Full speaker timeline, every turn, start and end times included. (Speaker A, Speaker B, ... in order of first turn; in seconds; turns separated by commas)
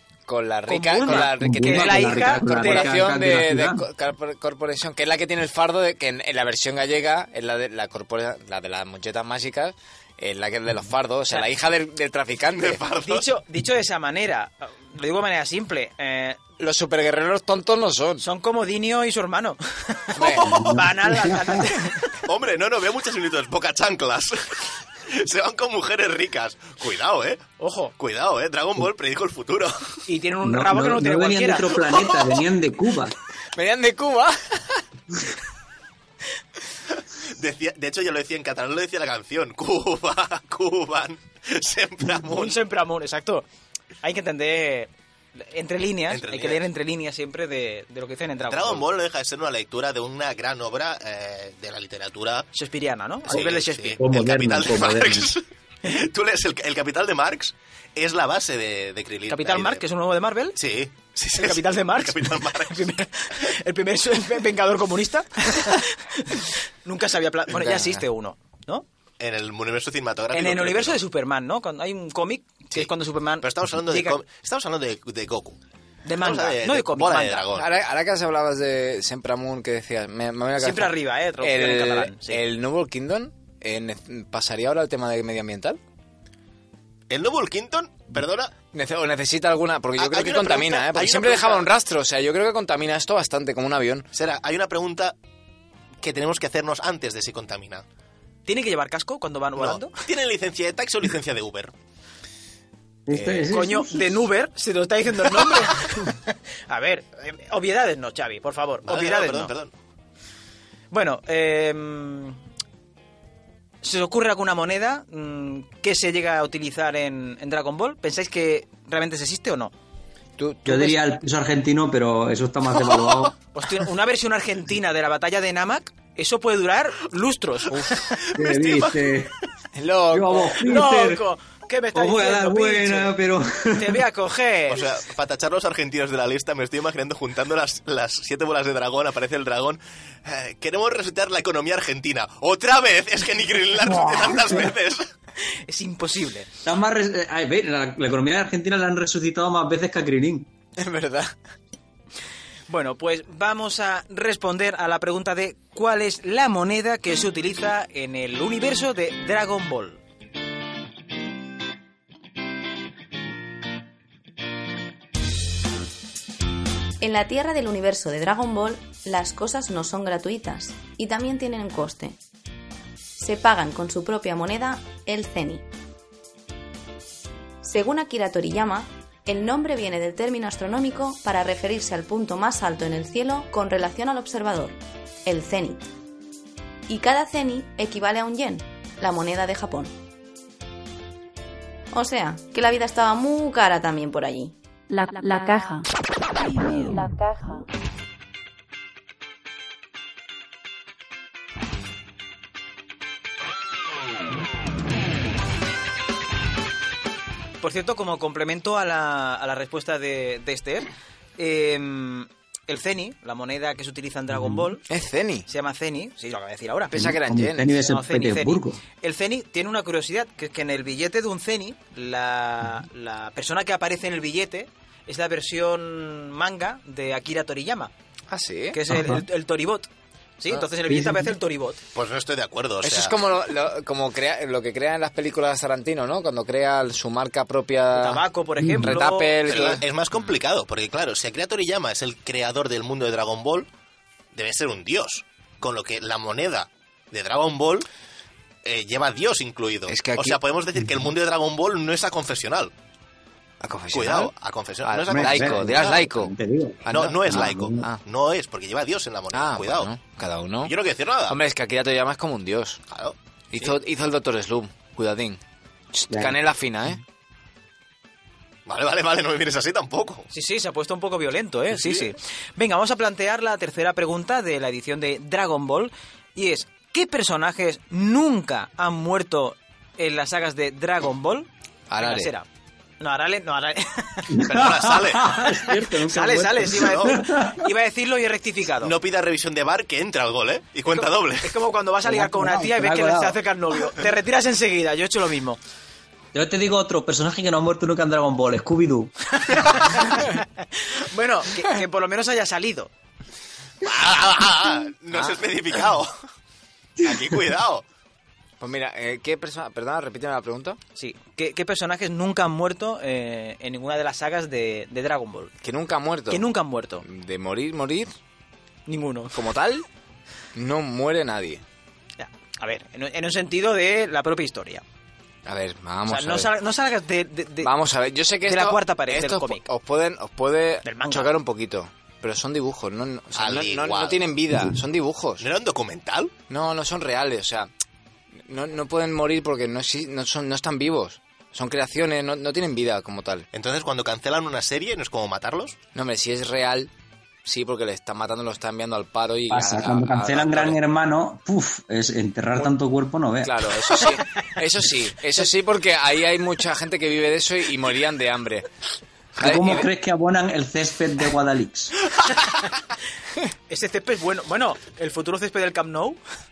Speaker A: 0.3-12.8, Speaker B: 0.7-2.9, Speaker C: 1.1-3.9, Speaker D: 12.5-13.3, Speaker B: 13.0-16.4, Speaker A: 16.6-18.2, Speaker B: 18.2-22.1, Speaker A: 20.1-20.6, Speaker C: 20.4-21.6, Speaker D: 22.2-27.4, Speaker B: 27.6-27.9, Speaker D: 28.0-29.9, Speaker B: 30.1-31.8, Speaker C: 30.4-33.1, Speaker A: 33.5-34.8, Speaker D: 37.3-42.6, Speaker B: 42.2-43.4, Speaker B: 44.0-48.9, Speaker D: 46.1-46.6, Speaker D: 48.5-52.5, Speaker B: 52.5-54.0, Speaker D: 53.2-59.8, Speaker C: 54.0-55.3, Speaker B: 59.3-60.6, Speaker D: 60.5-62.9, Speaker B: 61.3-68.8, Speaker A: 67.5-68.0, Speaker D: 69.2-71.0, Speaker B: 70.3-74.2, Speaker D: 72.7-75.6, Speaker B: 76.0-77.5, Speaker D: 76.1-77.7, Speaker A: 77.5-85.8, Speaker B: 80.6-82.4, Speaker D: 87.1-88.5, Speaker A: 88.7-94.1, Speaker D: 90.0-91.7, Speaker D: 94.1-95.1, Speaker D: 96.0-97.8, Speaker B: 98.5-99.9, Speaker D: 99.6-101.7, Speaker C: 103.1-104.0, Speaker A: 103.1-103.4, Speaker B: 103.5-109.5, Speaker D: 108.8-109.7, Speaker B: 110.9-112.4, Speaker B: 113.8-119.7, Speaker A: 120.4-121.0, Speaker C: 120.6-123.3, Speaker B: 123.5-127.8, Speaker D: 128.2-129.0, Speaker C: 128.3-129.3, Speaker A: 129.8-130.6, Speaker C: 130.1-131.2, Speaker B: 130.6-133.1, Speaker C: 131.9-134.0, Speaker B: 133.8-134.9, Speaker D: 134.7-145.1, Speaker C: 143.9-144.7, Speaker B: 145.7-146.5, Speaker C: 146.6-150.5, Speaker A: 150.8-151.3, Speaker B: 152.7-160.0, Speaker E: 167.0-172.2, Speaker E: 173.2-175.7, Speaker E: 177.6-185.9, Speaker E: 186.9-189.9, Speaker E: 191.9-194.5, Speaker F: 194.9-195.8, Speaker F: 196.4-197.6, Speaker B: 207.6-214.8, Speaker A: 214.9-215.4, Speaker B: 215.5-217.1, Speaker A: 216.9-217.8, Speaker C: 216.9-218.8, Speaker B: 217.8-227.9, Speaker A: 228.3-228.8, Speaker B: 228.7-229.9, Speaker C: 228.9-229.2, Speaker B: 230.4-231.8, Speaker C: 230.9-231.3, Speaker D: 231.9-233.1, Speaker A: 232.8-238.2, Speaker B: 237.9-239.8, Speaker C: 238.6-238.9, Speaker A: 238.8-239.8, Speaker D: 239.4-243.7, Speaker D: 244.3-247.8, Speaker D: 248.6-252.7, Speaker A: 249.9-250.4, Speaker A: 253.6-254.3, Speaker D: 253.9-256.0, Speaker A: 254.8-258.0, Speaker C: 255.1-257.8, Speaker D: 256.9-259.9, Speaker A: 259.3-260.7, Speaker D: 260.6-261.4, Speaker A: 261.3-262.8, Speaker D: 262.9-263.7, Speaker A: 263.5-265.4, Speaker A: 265.9-267.0, Speaker C: 266.1-266.4, Speaker D: 268.7-270.2, Speaker B: 270.3-281.5, Speaker D: 271.7-272.1, Speaker A: 281.9-282.3, Speaker B: 282.0-282.4, Speaker B: 283.0-284.4, Speaker C: 284.3-287.7, Speaker D: 284.4-285.4, Speaker B: 285.6-288.9, Speaker D: 286.8-287.1, Speaker D: 288.8-291.6, Speaker B: 290.9-295.6, Speaker C: 292.0-293.4, Speaker C: 296.3-299.1, Speaker B: 299.5-302.9, Speaker D: 303.8-306.1, Speaker D: 307.0-307.8, Speaker A: 308.6-310.8, Speaker B: 311.0-315.5, Speaker A: 315.6-316.5, Speaker B: 316.3-317.0, Speaker A: 317.0-318.1, Speaker B: 318.9-319.4, Speaker A: 319.3-319.8, Speaker A: 320.5-321.6, Speaker B: 322.2-324.8, Speaker A: 325.4-326.5, Speaker B: 326.1-327.7, Speaker A: 327.6-335.5, Speaker B: 328.5-329.6, Speaker B: 330.8-331.3, Speaker D: 333.3-334.2, Speaker D: 335.4-336.3, Speaker A: 336.5-337.7, Speaker A: 338.4-343.5, Speaker D: 343.5-345.8, Speaker A: 345.9-346.9, Speaker A: 347.4-350.8, Speaker C: 349.5-353.7, Speaker A: 353.4-358.7, Speaker A: 359.4-359.9, Speaker C: 359.4-361.9, Speaker B: 363.7-366.2